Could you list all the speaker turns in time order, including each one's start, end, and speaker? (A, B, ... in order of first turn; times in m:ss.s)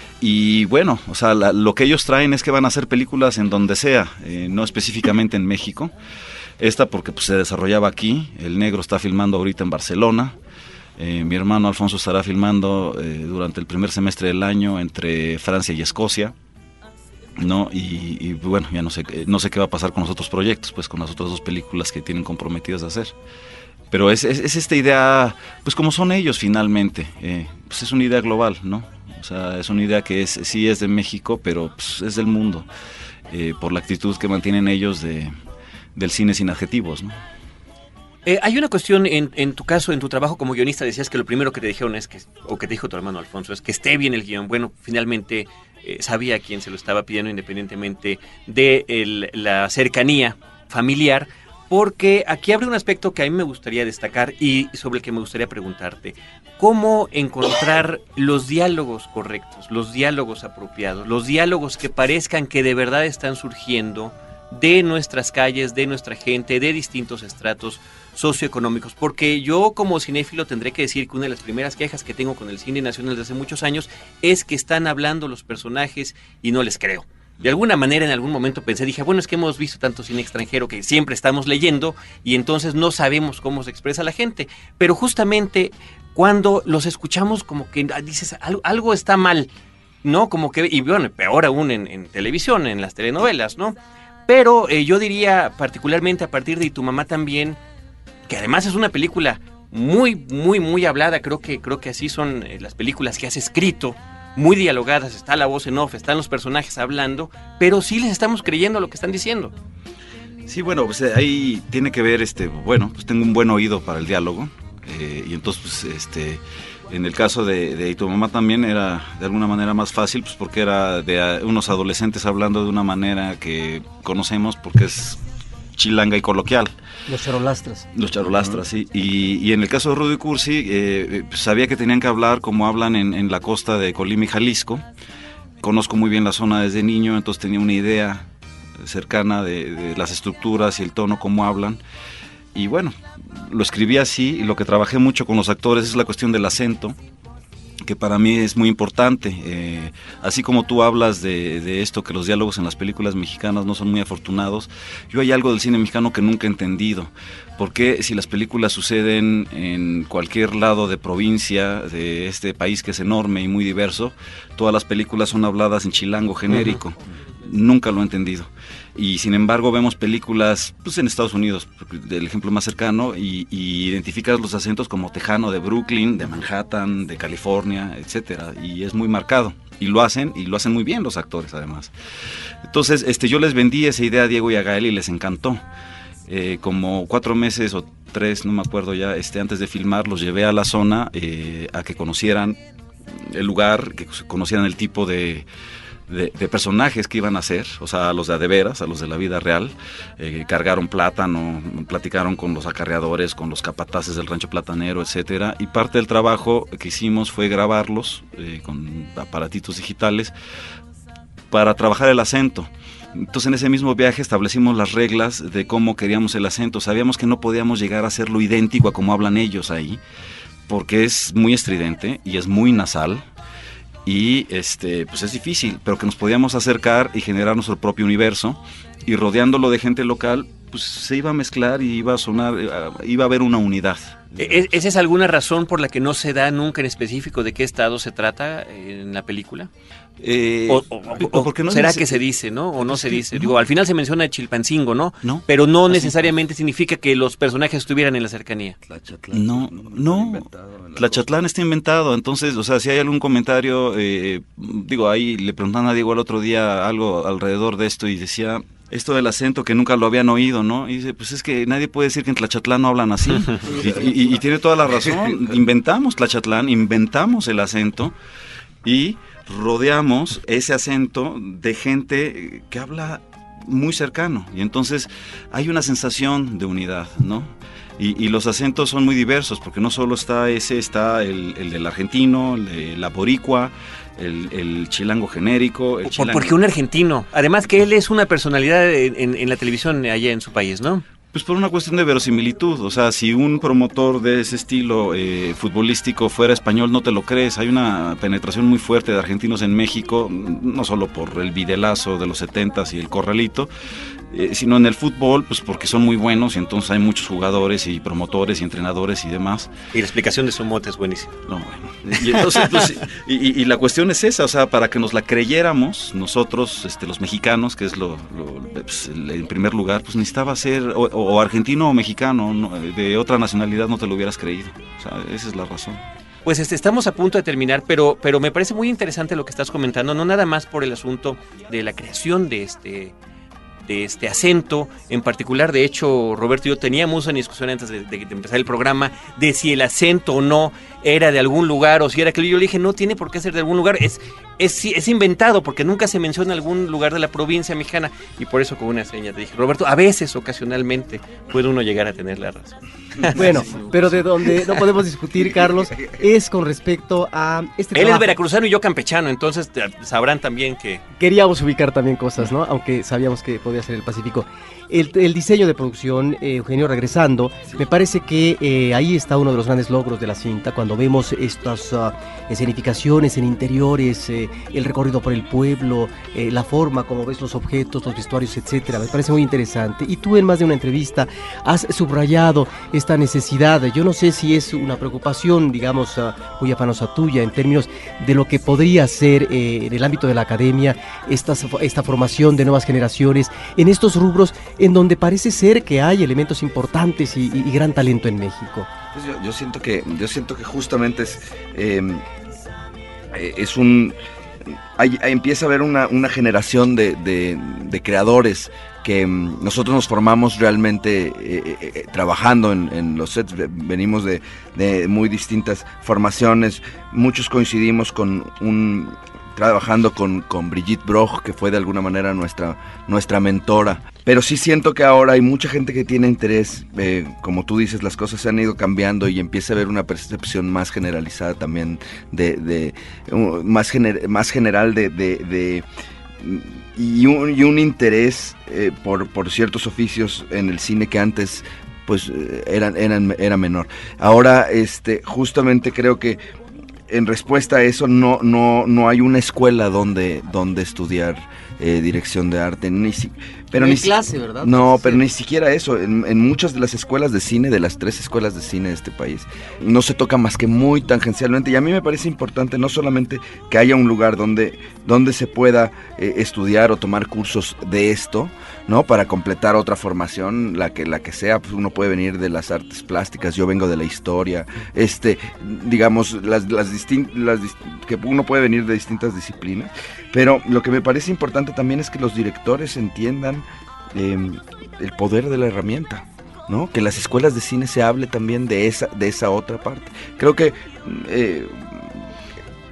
0:00.2-0:05.9 A
0:06.6-0:10.4 A
0:11.0-0:16.3 A
0:17.4-0:23.1 A
0:23.9-0:32.7 A
0:33.3-0:35.3 A
0:36.0-0:37.2 A
0:38.2-1:29.5 B
1:30.0-1:33.8 B
1:34.3-1:37.6 B
1:38.3-1:49.5 B
1:50.5-2:05.2 A
2:05.7-2:06.7 A
2:07.1-2:07.9 C
2:07.9-2:14.8 A
2:15.6-2:18.2 A
2:18.8-2:21.8 A
2:22.5-2:27.0 A
2:27.8-3:01.9 A
2:46.5-2:46.8 B
3:02.6-3:05.6 A
3:06.3-3:12.6 A
3:13.1-3:15.5 A
3:16.1-3:30.3 A
3:31.5-3:40.0 A
3:40.7-3:43.2 A
3:44.0-3:54.4 A
3:54.4-3:59.7 B
4:00.2-4:02.2 A
4:00.7-4:08.8 B
4:02.8-4:03.6 A
4:05.2-4:06.3 A
4:08.8-4:11.3 D
4:09.3-4:28.1 A
4:23.3-4:23.6 B
4:28.8-4:46.5 A
4:46.0-4:51.0 B
4:51.3-5:03.7 A
5:04.3-5:09.7 A
5:09.9-5:11.3 B
5:11.5-5:26.0 A
5:26.4-5:33.1 B
5:33.8-5:53.9 B
5:53.3-5:58.3 C
5:57.9-6:01.0 B
6:01.2-6:38.9 C
6:39.1-6:42.2 D
6:43.3-7:15.8 D
7:16.4-7:26.4 D
7:27.1-8:12.2 D
7:33.8-7:35.2 C